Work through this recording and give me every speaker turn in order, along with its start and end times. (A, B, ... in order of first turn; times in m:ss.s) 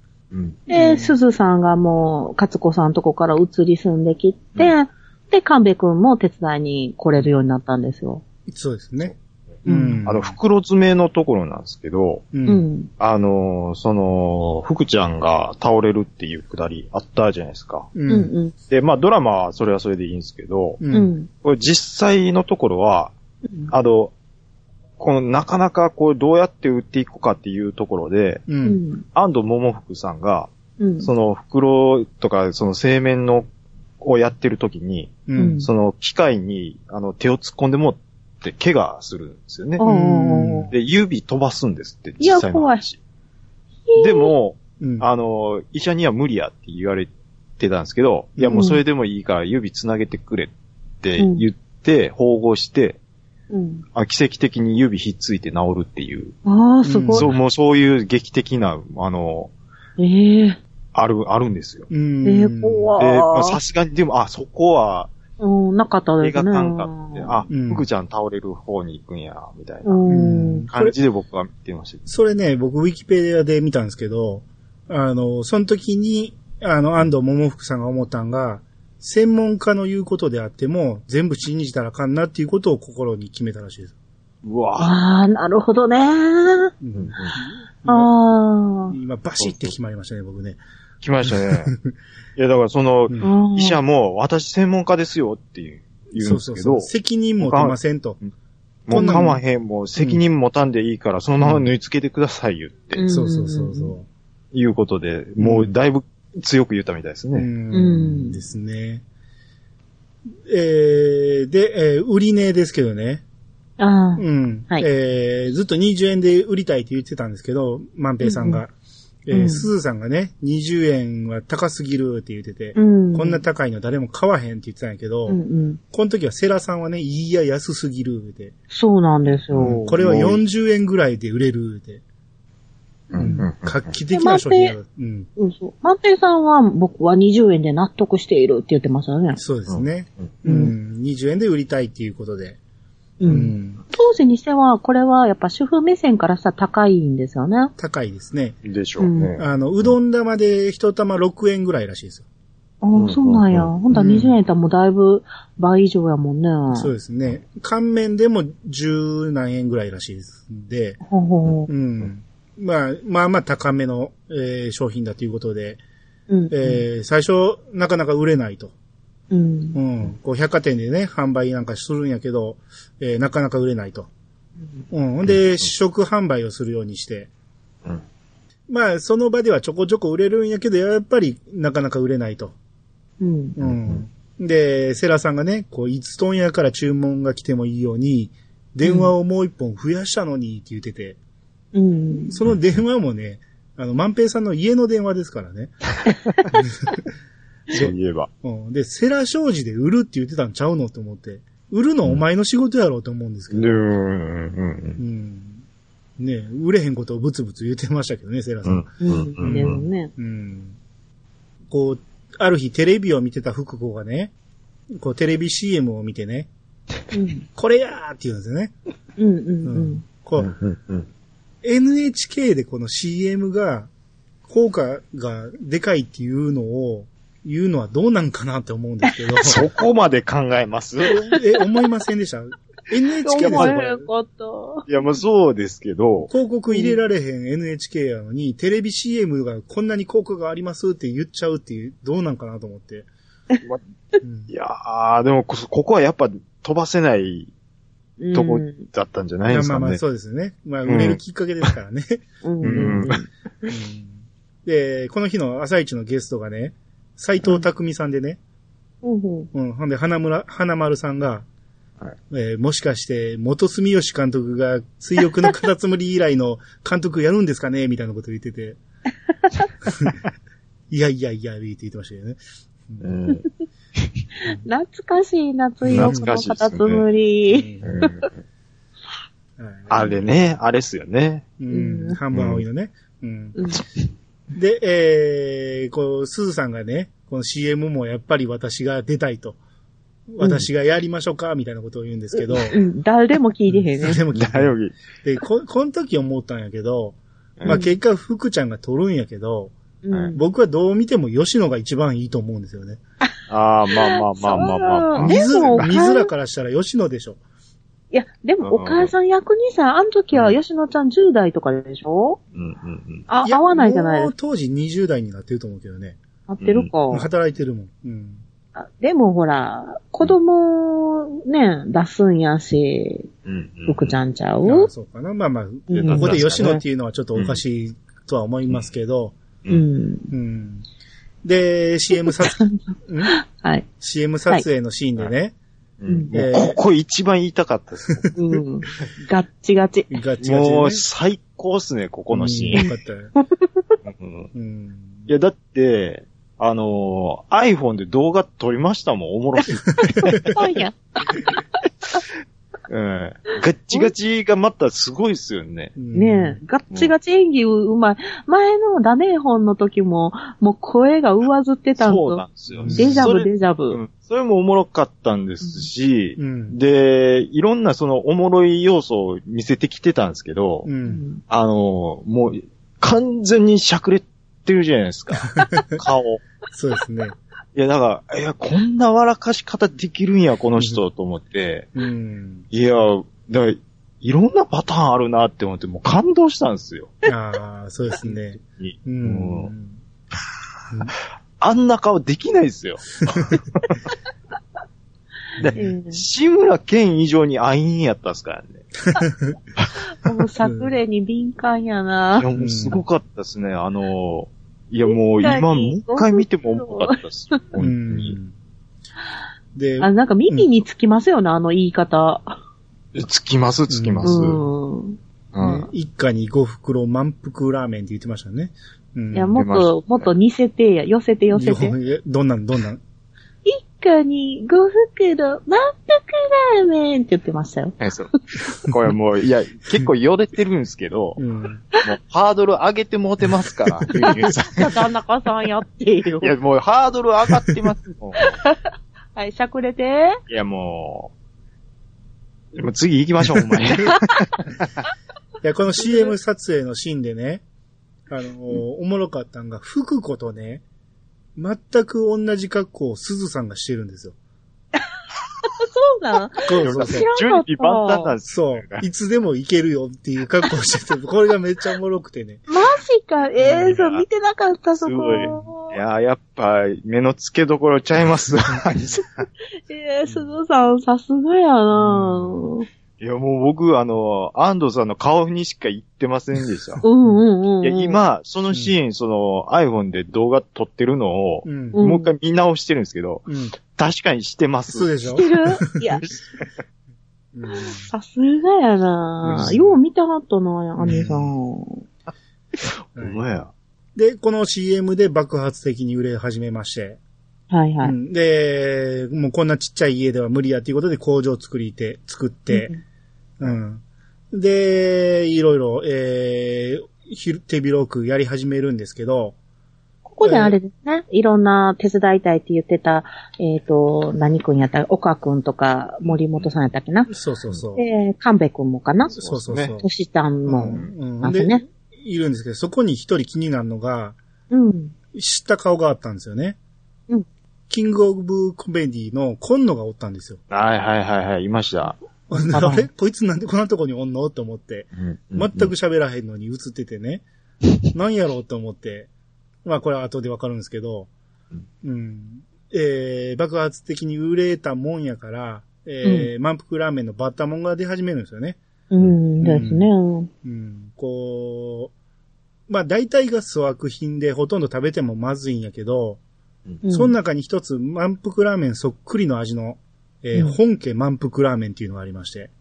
0:00.3-0:00.6 A
0:00.7-0:01.2 B
0:00.7-0:08.2 C
0:08.5-0:09.1 B
0:09.6-0:10.0 C
0:09.6-0:10.4 B
0:10.1-0:12.3 A
0:12.3-0:12.6 B
0:12.4-0:12.9 C
0:13.0-0:17.9 A
0:17.9-0:18.3 B
0:18.1-0:18.6 C
0:18.7-0:20.8 A
0:20.8-0:21.1 B
0:20.9-0:21.3 C
0:21.4-0:23.1 A
0:23.5-0:23.7 C
0:23.7-0:24.1 A
0:25.0-0:28.4 A
0:28.5-0:28.8 B
0:28.6-0:29.0 C
0:29.1-0:30.5 A
0:30.8-0:31.1 C
0:31.0-0:33.5 A
0:34.0-0:39.8 A
0:35.3-0:35.6 B
0:35.4-0:35.7 C
0:39.8-0:40.7 C
0:39.8-0:40.7 B
0:40.7-0:43.0 A
0:42.2-0:42.8 C
0:43.9-0:44.3 C
0:44.0-0:53.0 A
0:44.8-0:45.1 B
0:48.4-0:48.6 B
0:48.5-0:48.8 C
0:51.2-0:51.4 C
0:53.5-0:53.8 C
0:53.9-0:56.4 A
0:56.4-0:57.3 C
0:56.8-0:57.3 B
0:57.1-0:59.5 A
1:00.0-1:00.6 C
1:00.9-1:01.9 A
1:01.9-1:03.0 B
1:02.2-1:03.6 C
1:03.0-1:05.1 A
1:05.4-1:07.4 C
1:06.2-1:10.0 A
1:07.5-1:07.9 B
1:09.8-1:10.7 C
1:10.1-1:10.9 B
1:10.7-1:12.0 A
1:12.1-1:23.9 B
1:24.4-1:24.9 A
1:24.8-1:26.7 C
1:26.8-1:28.1 B
1:26.9-1:27.4 A
1:27.9-1:28.9 C
1:28.9-1:30.6 B
1:29.4-1:29.7 A
1:31.0-1:31.7 A
1:31.2-1:31.9 B
1:32.4-1:37.8 A
1:33.2-1:33.8 C
1:36.1-1:38.2 B
1:38.9-1:43.0 A
1:38.9-1:39.4 B
1:39.0-1:39.3 C
1:41.4-1:41.7 B
1:42.9-1:43.9 C
1:43.1-1:44.1 B
1:44.5-1:47.5 A
1:45.4-1:45.7 B
1:47.4-1:49.0 B
1:47.7-1:48.4 C
1:50.5-1:53.2 B
1:53.8-1:54.9 C
1:54.2-1:58.7 B
1:58.2-1:58.6 C
1:59.3-2:05.4 B
1:59.3-1:59.7 C
2:02.7-2:03.4 C
2:05.3-2:05.8 C
2:05.9-2:08.5 B
2:08.7-2:09.9 C
2:09.5-2:10.4 A
2:09.8-2:12.0 B
2:13.1-2:13.9 A
2:13.2-2:15.3 B
2:14.1-2:14.8 C
2:15.4-2:19.4 C
2:19.4-2:22.6 B
2:19.7-2:20.3 A
2:20.4-2:20.7 C
2:23.2-2:27.7 C
2:23.2-2:23.8 B
2:27.8-2:28.6 B
2:28.6-2:29.9 A
2:29.0-2:29.4 C
2:29.4-2:32.2 B
2:32.8-2:36.9 C
2:32.9-2:33.7 A
2:33.9-2:34.4 B
2:36.7-2:41.0 B
2:41.0-2:41.7 C
2:41.7-2:45.8 B
2:46.3-2:46.8 C
2:46.5-2:48.7 B
2:49.3-2:49.8 C
2:49.7-2:54.1 B
2:54.9-2:57.3 B
2:55.2-2:55.7 A
2:58.7-3:02.5 B
3:03.2-3:03.6 C
3:03.6-3:11.2 B
3:03.6-3:04.0 A
3:08.8-3:09.1 C
3:11.7-3:12.3 C
3:12.3-3:15.7 B
3:16.6-3:17.0 B
3:17.7-3:23.8 B
3:17.7-3:18.3 A
3:23.5-3:25.0 A
3:25.0-3:25.6 B
3:26.2-3:30.8 B
3:28.6-3:29.8 A
3:29.0-3:30.1 C
3:31.7-3:34.3 B
3:34.9-3:36.5 B
3:37.1-3:37.4 C
3:37.6-3:38.7 B
3:39.2-3:40.0 C
3:39.6-3:40.5 B
3:40.4-3:41.1 A
3:41.6-3:43.9 B
3:44.5-3:49.6 B
3:49.4-3:51.1 A
3:51.1-3:54.1 B
3:53.2-3:54.9 C
3:53.4-3:53.8 A
3:54.9-3:56.3 A
3:56.3-4:03.1 B
3:56.7-3:57.0 C
4:04.2-4:04.5 B
4:04.5-4:07.5 A
4:08.2-4:08.9 C
4:08.3-4:10.0 A
4:09.5-4:13.0 B
4:10.9-4:11.2 A
4:12.4-4:13.2 C
4:12.6-4:13.2 A
4:13.7-4:18.4 B
4:19.0-4:19.5 C
4:19.5-4:21.4 B
4:22.3-4:28.8 B
4:29.9-4:30.2 B
4:30.9-4:33.1 B
4:33.0-4:33.4 A
4:34.0-4:34.2 A
4:34.4-4:38.1 C
4:35.9-4:37.0 A
4:35.9-4:36.2 B
4:37.5-4:37.9 B
4:37.8-4:38.3 A
4:39.6-4:40.0 B
4:39.9-4:41.5 A
4:41.6-4:43.6 B
4:41.7-4:42.2 C
4:42.3-4:42.6 A
4:43.6-4:43.8 C
4:44.5-4:49.6 B
4:50.3-4:52.8 B
4:52.4-4:54.2 C
4:53.7-4:59.7 B
4:54.3-4:55.0 A
4:57.6-4:57.9 C
5:00.0-5:00.4 C
5:00.4-5:03.0 B
5:03.5-5:05.9 A
5:03.9-5:06.3 C
5:05.2-5:07.4 B
5:08.1-5:12.4 C
5:08.6-5:09.1 A
5:10.3-5:10.6 A
5:12.5-5:13.3 A
5:13.3-5:14.3 C
5:13.4-5:16.2 B
5:16.5-5:17.3 C
5:16.6-5:16.9 A
5:17.1-5:18.4 B
5:18.7-5:23.3 C
5:23.4-5:24.2 A
5:23.9-5:24.9 C
5:24.6-5:29.4 B
5:25.9-5:26.8 C
5:25.9-5:26.8 A
5:27.4-5:27.6 A
5:29.7-5:30.3 C
5:30.3-5:30.8 B
5:31.4-5:33.3 B
5:32.4-5:33.9 C
5:34.0-5:35.6 B
5:36.0-5:38.3 A
5:36.3-5:36.8 B
5:38.4-5:40.1 C
5:40.1-5:41.0 B
5:40.4-5:42.8 A
5:42.3-5:43.3 B
5:42.8-5:43.9 C
5:44.0-5:44.5 A
5:44.5-5:45.3 B
5:45.3-5:50.6 A
5:50.1-5:50.5 B
5:50.2-5:51.6 C
5:52.9-5:55.9 A
5:56.0-5:56.6 B
5:56.1-6:04.0 C
6:02.0-6:10.9 A
6:02.8-6:03.3 B
6:05.6-6:05.9 C
6:06.4-6:06.8 B
6:10.8-6:11.2 B
6:11.1-6:11.4 C
6:11.5-6:16.4 A
6:15.5-6:16.0 B
6:16.7-6:17.4 B
6:17.7-6:21.9 A
6:21.9-6:22.6 B
6:22.7-6:27.1 A
6:27.3-6:30.0 B
6:28.2-6:29.7 A
6:31.6-6:33.6 A
6:33.3-6:33.6 B
6:35.6-6:38.8 A
6:35.6-6:35.9 B
6:35.7-6:36.2 C
6:39.0-6:39.6 B
6:40.2-6:42.5 C
6:40.6-6:40.9 B
6:42.4-6:48.4 A
6:42.6-6:43.0 B
6:45.1-6:47.6 C
6:47.8-6:48.5 B
6:49.7-6:50.7 B
6:50.0-6:52.6 C
6:53.1-6:54.6 A
6:53.9-6:54.6 B
6:54.2-6:55.2 C
6:55.5-6:55.9 A
6:55.6-6:59.6 B
6:59.3-7:02.0 C
6:59.5-7:00.3 A
7:01.5-7:03.0 B
7:03.6-7:08.0 C
7:08.0-7:08.3 A
7:08.8-7:11.4 A
7:11.4-7:11.8 B
7:12.0-7:15.0 A
7:14.0-7:14.3 B
7:14.1-7:16.6 C
7:16.4-7:18.6 A
7:18.4-7:18.8 C
7:19.4-7:20.4 C
7:20.5-7:21.3 A
7:22.7-7:24.5 A
7:25.6-7:27.6 B
7:28.3-7:30.8 B
7:31.6-7:34.4 B
7:35.6-7:38.3 C
7:36.6-7:37.3 B
7:36.8-7:39.1 A
7:38.5-7:42.6 B
7:42.7-7:46.0 C
7:43.6-7:44.2 A
7:45.0-7:49.5 A
7:49.9-7:52.9 C
7:52.0-7:52.4 B
7:53.2-7:57.0 A
7:57.0-7:58.2 C
7:57.8-8:05.1 A
8:01.6-8:02.0 B
8:01.9-8:02.3 C
8:03.5-8:03.8 B
8:04.9-8:05.9 B
8:05.3-8:06.2 C
8:07.6-8:08.1 B
8:07.7-8:12.0 C
8:09.5-8:10.0 B
8:11.0-8:11.5 B
8:12.8-8:13.7 A
8:13.2-8:13.4 B
8:14.2-8:17.2 B
8:17.7-8:18.1 C
8:18.0-8:22.9 B
8:22.7-8:23.0 C
8:23.6-8:24.0 B
8:24.5-8:29.6 B
8:30.2-8:37.3 C
8:30.4-8:30.8 B
8:36.2-8:36.7 A
8:37.3-8:38.0 B
8:38.0-8:41.8 C
8:39.3-8:40.1 B
8:39.7-8:40.0 A
8:40.6-8:44.4 B
8:44.7-8:45.1 C
8:45.3-8:46.8 B
8:47.9-8:50.6 B
8:50.7-8:52.2 A
8:52.5-8:57.4 B
8:52.7-8:53.1 C
8:55.2-8:55.9 A
8:58.1-8:59.3 B
8:59.8-9:01.3 B
9:02.0-9:08.8 B
9:06.2-9:06.5 C
9:09.1-9:10.5 C
9:09.6-9:10.1 B
9:10.6-9:12.1 B
9:12.9-9:16.4 B
9:17.0-9:17.4 C
9:17.1-9:22.7 B